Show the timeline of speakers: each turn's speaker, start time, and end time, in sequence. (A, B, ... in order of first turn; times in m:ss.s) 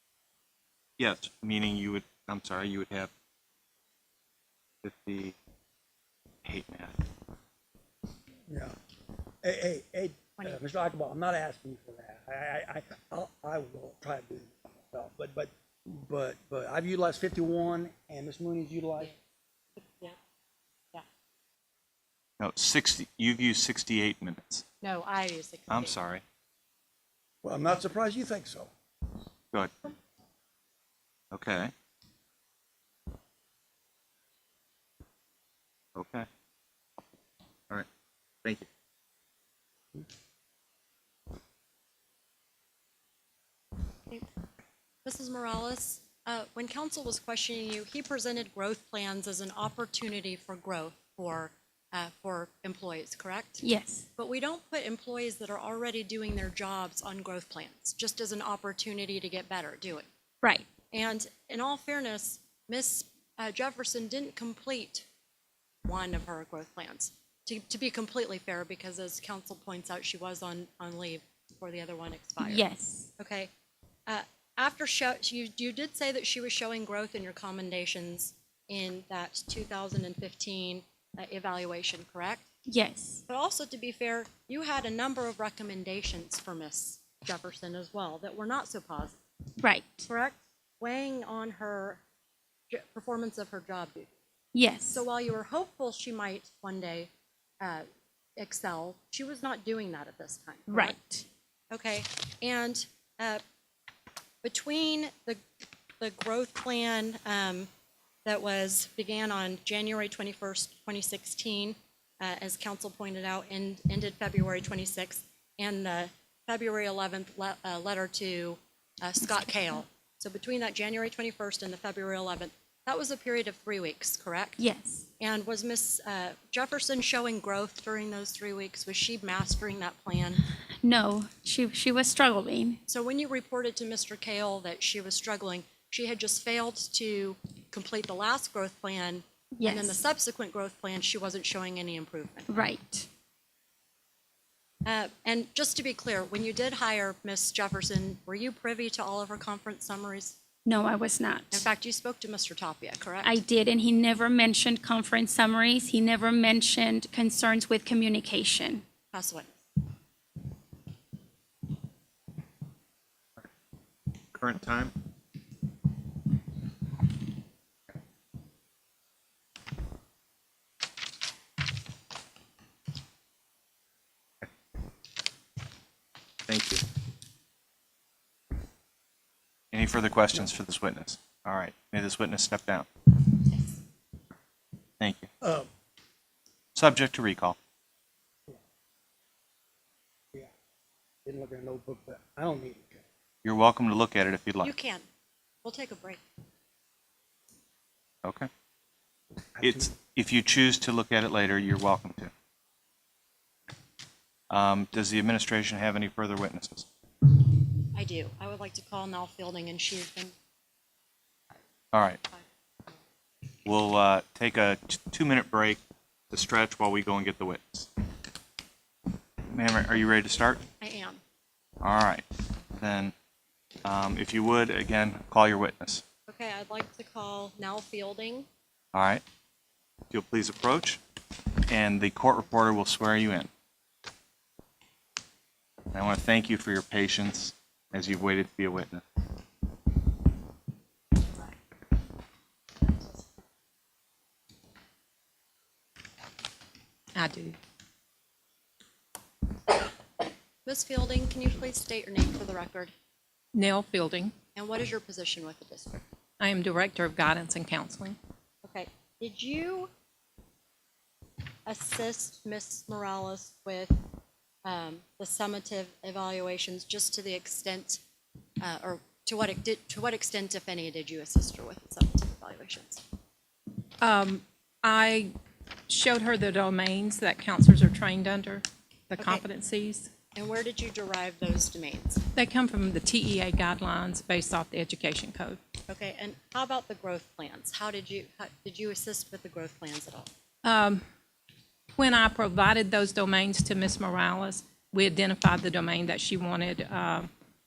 0:01.0-0:03.1 A
0:04.8-0:05.3 A
0:06.4-0:07.0 A
0:08.5-0:08.7 B
0:09.4-0:19.1 B
0:19.8-0:20.2 C
0:22.4-0:24.6 A
0:24.8-0:25.9 C
0:25.7-0:26.2 A
0:27.4-0:28.7 B
0:31.3-0:31.7 A
0:35.9-0:36.3 A
0:45.0-0:53.6 C
0:53.6-0:54.0 D
0:54.2-1:00.1 C
1:00.4-1:00.7 D
1:00.9-1:05.0 C
1:05.8-1:12.6 C
1:12.4-1:13.1 D
1:13.2-1:13.5 C
1:14.1-1:22.4 C
1:22.7-1:23.2 D
1:23.3-1:29.2 C
1:29.6-1:30.1 D
1:30.1-1:32.0 C
1:32.7-1:34.1 C
1:34.5-1:35.0 D
1:34.8-1:37.1 C
1:37.6-1:37.8 C
1:38.4-1:41.0 C
1:40.7-1:41.2 D
1:41.7-1:43.4 C
1:44.4-1:45.4 C
1:46.0-1:47.7 C
1:48.2-2:04.6 C
2:04.6-2:05.1 D
2:05.2-2:10.4 C
2:10.8-2:12.8 D
2:12.9-2:22.6 C
2:19.6-2:20.0 D
2:22.5-2:23.1 D
2:24.8-2:30.4 C
2:30.6-2:31.6 D
2:31.5-2:33.4 C
2:33.2-2:38.8 D
2:39.1-2:39.5 C
2:44.3-2:44.9 A
2:56.5-2:56.8 A
2:59.7-3:02.9 A
3:05.0-3:05.3 A
3:05.4-3:05.7 B
3:06.7-3:07.6 A
3:11.2-3:13.0 B
3:13.4-3:14.7 A
3:14.6-3:15.0 C
3:15.6-3:16.2 C
3:18.2-3:18.5 A
3:19.6-3:19.9 B
3:19.6-3:22.3 A
3:24.5-3:26.9 A
3:27.9-3:30.3 C
3:31.9-3:32.2 A
3:33.6-3:35.8 A
3:36.3-3:37.9 A
3:39.5-3:40.6 A
3:40.8-3:41.2 C
3:41.8-3:42.2 A
3:42.8-3:43.1 A
3:43.8-3:46.0 A
3:46.3-3:48.4 C
3:48.9-3:49.2 A
3:50.1-3:51.0 A
3:51.7-3:53.5 A
3:55.9-3:59.0 A
4:07.2-4:07.6 E
4:10.6-4:12.9 C
4:13.5-4:14.3 E
4:14.6-4:16.0 C
4:16.4-4:18.2 E
4:18.6-4:19.9 C
4:21.6-4:24.0 C
4:24.6-4:28.0 C
4:28.6-4:33.0 C
4:34.0-4:35.3 E
4:35.9-4:40.1 E
4:39.2-4:39.4 C
4:40.3-4:42.2 C
4:42.3-4:45.6 E
4:45.9-4:50.3 C
4:50.6-4:51.0 E
4:52.0-4:57.3 E